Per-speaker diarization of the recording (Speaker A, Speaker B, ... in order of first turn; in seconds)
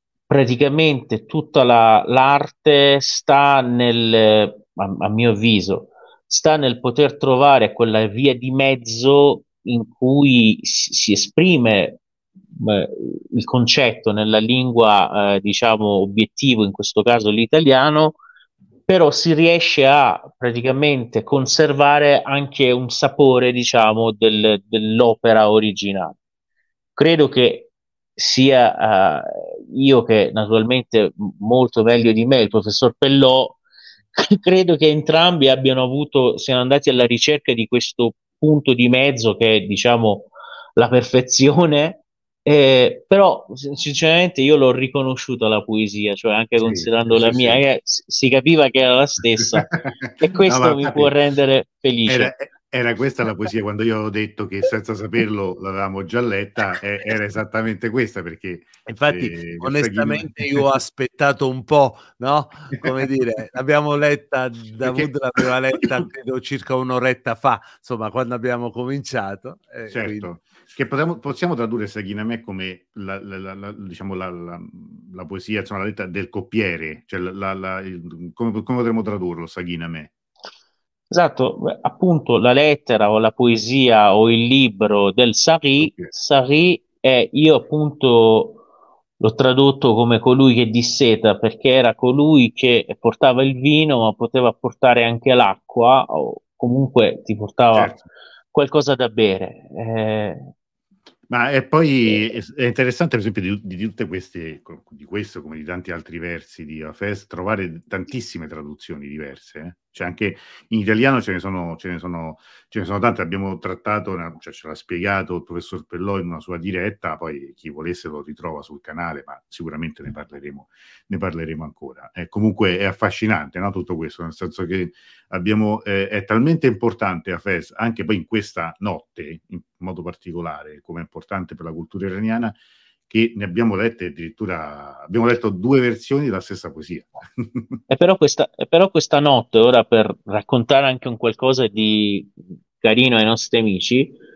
Speaker A: 0.3-12.0, 12.6-18.2, 18.9-26.2, 26.9-33.6, 34.1-49.7, 50.2-52.3, 81.1-88.6, 89.2-98.0, 98.5-100.5, 137.9-144.2
Speaker B: 46.6-47.6, 49.4-51.1, 52.1-60.6, 64.8-65.1, 69.9-80.1, 85.8-86.1, 97.7-98.0, 101.3-132.6, 133.1-137.8
Speaker C: 58.9-70.3